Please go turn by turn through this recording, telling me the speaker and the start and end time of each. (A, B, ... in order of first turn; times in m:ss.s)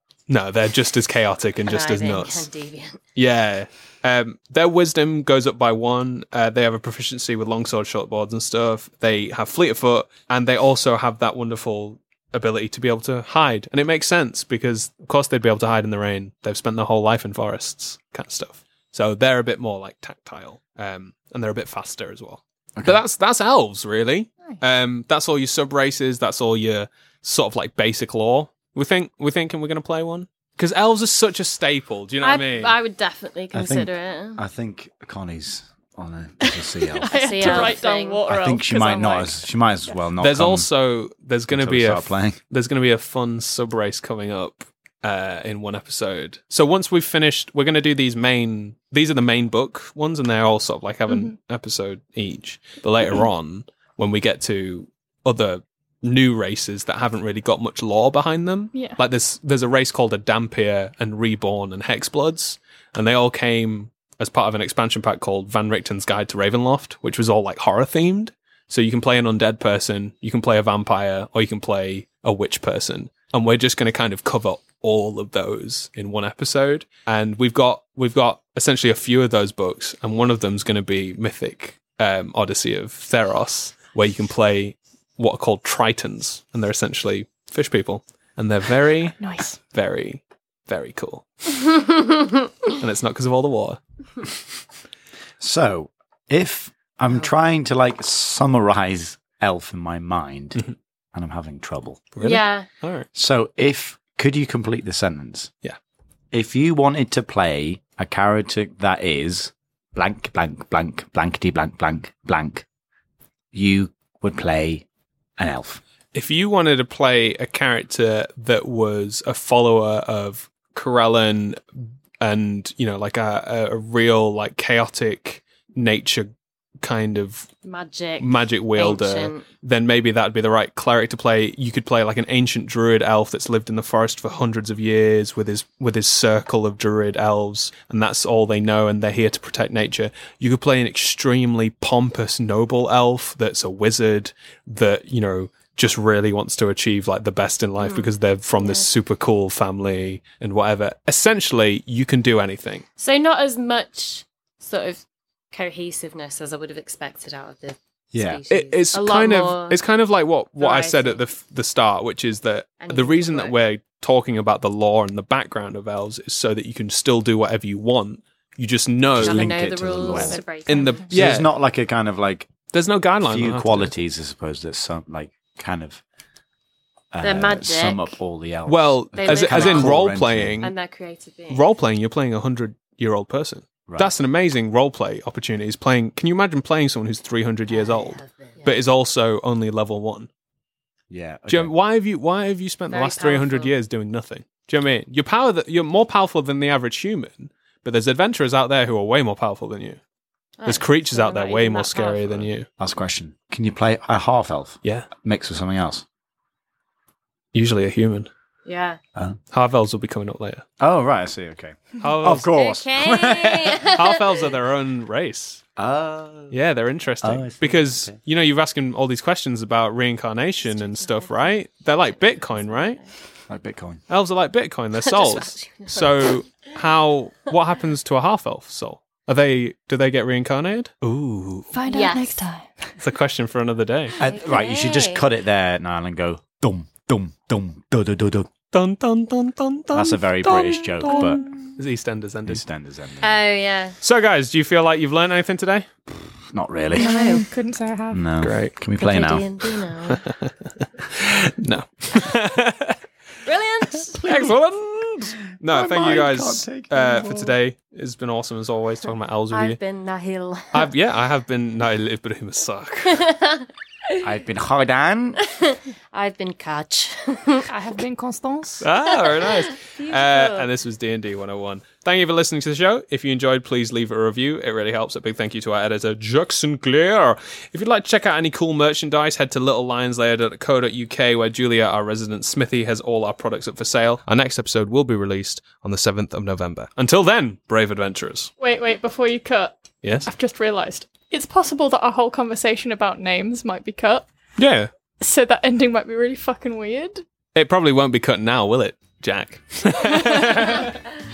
0:00.3-0:02.5 A
0:01.6-0:03.0 B
0:03.1-0:32.7 A
0:22.8-0:23.0 C
0:32.2-0:34.4 B
0:33.5-0:40.7 C
0:36.9-0:39.4 D
0:37.1-0:38.2 B
0:40.2-1:31.7 A
0:41.5-0:42.4 C
0:58.7-0:59.0 D
1:29.2-1:29.6 D
1:32.8-1:33.8 A
1:35.4-1:40.6 C
1:41.1-1:42.0 C
1:42.1-1:43.1 A
1:42.2-1:42.7 B
1:43.1-1:45.5 C
1:46.3-1:52.6 C
1:53.5-1:54.8 C
1:55.4-1:55.8 C
1:56.1-2:06.3 A
2:06.8-2:07.5 A
2:07.6-2:09.4 B
2:08.2-2:32.8 A
2:27.8-2:28.9 B
2:33.0-2:39.8 B
2:38.1-2:38.4 C
2:38.5-2:49.6 A
2:40.6-2:41.2 B
2:42.8-2:43.6 B
2:49.2-2:50.4 C
2:49.2-2:51.1 B
2:50.1-2:50.9 D
2:50.1-2:51.5 A
2:51.1-2:52.5 C
2:52.7-2:53.9 A
2:53.2-2:56.0 C
2:57.1-3:00.6 C
2:57.2-2:58.1 B
2:58.6-3:00.7 A
2:59.2-3:00.0 B
3:00.6-3:01.7 B
3:01.5-3:10.3 A
3:03.9-3:04.1 C
3:07.7-3:08.8 B
3:11.1-3:11.7 C
3:11.5-3:20.0 A
3:12.9-3:13.7 B
3:20.6-3:22.5 B
3:20.6-3:22.7 A
3:22.8-3:26.0 C
3:27.5-3:28.3 A
3:28.6-3:29.0 B
3:29.5-3:30.6 A
3:30.8-3:33.8 C
3:32.0-3:32.6 A
3:32.5-3:34.2 B
3:33.8-3:35.6 A
3:35.8-3:36.5 C
3:36.5-3:43.0 A
3:37.2-3:38.2 C
3:40.6-3:41.6 B
3:42.2-3:43.1 B
3:43.5-3:44.0 C
3:44.1-3:51.7 A
3:45.0-3:46.4 B
3:51.7-3:52.9 D
3:51.9-3:52.4 B
3:53.0-3:54.2 A
3:54.2-3:58.5 C
3:54.2-3:55.2 B
3:58.7-4:02.6 A
3:59.9-4:01.4 C
4:01.0-4:01.5 D
4:02.5-4:03.3 C
4:03.2-4:04.0 B
4:04.0-4:05.9 A
4:06.5-4:07.1 C
4:06.9-4:07.4 B
4:06.9-4:08.2 D
4:08.1-4:09.4 C
4:08.4-4:08.7 A
4:09.0-4:10.2 B
4:10.1-4:13.0 A
4:13.4-4:14.2 B
4:14.2-4:19.8 A
4:14.2-4:14.5 C
4:15.6-4:17.5 C
4:19.5-4:20.9 B
4:20.7-4:23.3 A
4:23.2-4:24.2 B
4:24.2-4:25.4 C
4:25.4-4:27.7 B
4:27.7-4:28.9 D
4:28.8-4:48.5 A
4:29.2-4:30.7 B
4:48.6-4:54.3 D
4:50.0-4:50.3 A
4:54.6-4:54.9 A
4:55.2-4:57.2 D
4:57.5-5:00.9 A
5:00.0-5:01.0 D